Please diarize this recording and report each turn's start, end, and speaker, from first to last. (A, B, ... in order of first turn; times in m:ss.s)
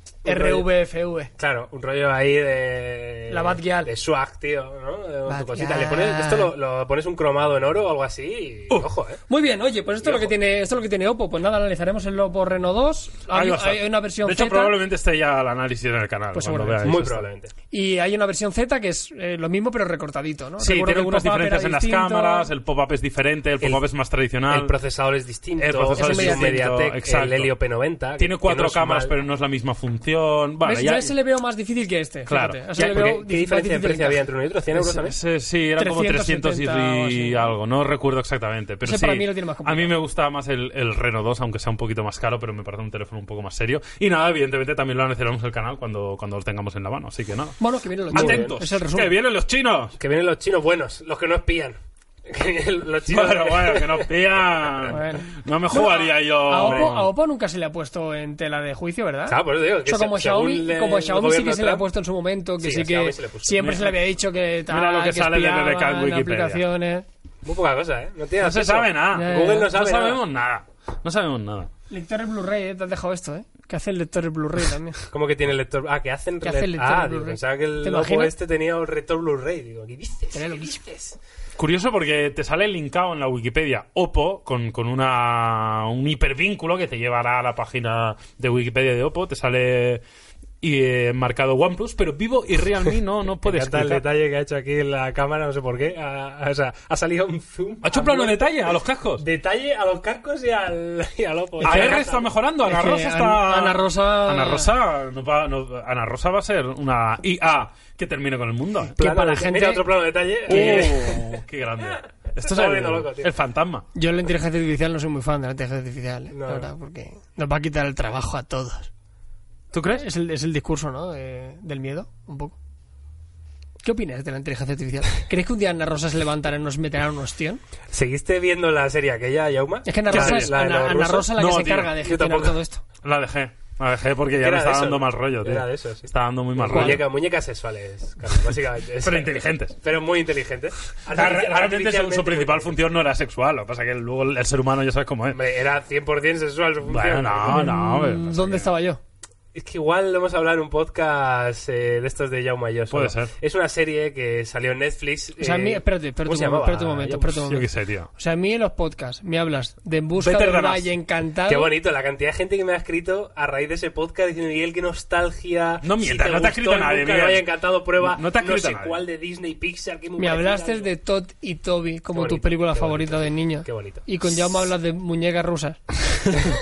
0:00.2-0:00.7 A
0:00.2-0:01.3 B
0:01.4-0:09.2 A
0:03.3-0:03.9 B
0:05.3-0:06.5 B
0:09.3-0:14.8 B
0:10.0-0:10.3 A
0:13.3-0:17.2 C
0:16.3-0:17.0 B
0:16.8-0:17.5 A
0:17.7-0:22.5 B
0:20.6-0:24.7 C
0:24.5-0:29.1 A
0:25.6-0:27.5 C
0:26.0-0:26.5 B
0:28.2-0:31.1 C
0:30.6-0:34.2 B
0:32.3-0:32.6 C
0:32.8-0:35.2 A
0:34.8-0:47.6 C
0:35.8-0:37.5 B
0:38.8-0:39.9 B
0:47.6-0:49.1 B
0:48.1-0:50.0 C
0:48.1-0:48.6 A
0:50.0-0:54.1 A
0:53.1-0:57.1 C
0:54.9-1:07.1 B
0:56.6-0:56.9 A
0:59.3-1:01.9 A
1:02.6-1:03.7 A
1:03.6-1:04.0 C
1:04.7-1:06.6 C
1:07.4-1:10.2 A
1:08.4-1:11.7 C
1:09.1-1:09.7 B
1:11.9-1:15.0 B
1:15.1-1:21.2 A
1:16.4-1:18.3 B
1:20.3-1:20.9 B
1:21.6-1:30.0 C
1:30.6-1:34.1 C
1:33.4-1:42.3 A
1:37.8-1:39.2 C
1:41.6-1:42.1 B
1:41.6-1:49.0 C
1:42.6-1:44.7 B
1:49.0-1:51.3 A
1:49.0-1:49.8 B
1:50.5-1:53.9 C
1:50.6-1:50.9 B
1:52.4-1:53.3 A
1:54.0-1:58.9 B
1:56.3-1:56.7 A
1:59.7-2:00.1 C
1:59.9-2:02.6 B
2:03.8-2:07.6 B
2:07.9-2:11.4 A
2:09.8-2:12.8 B
2:10.1-2:10.5 C
2:11.4-2:11.9 C
2:12.0-2:12.6 A
2:13.0-2:17.1 C
2:14.4-2:22.8 A
2:16.7-2:17.0 B
2:19.0-2:19.8 C
2:21.1-2:25.4 C
2:25.3-2:27.7 A
2:26.9-2:28.7 C
2:27.5-2:29.0 B
2:29.5-2:37.3 A
2:32.9-2:33.3 C
2:35.4-2:41.7 B
2:37.3-2:38.1 C
2:40.2-2:40.9 C
2:41.5-2:50.9 A
2:45.8-2:49.0 C
2:50.2-2:55.8 B
2:52.1-2:54.1 A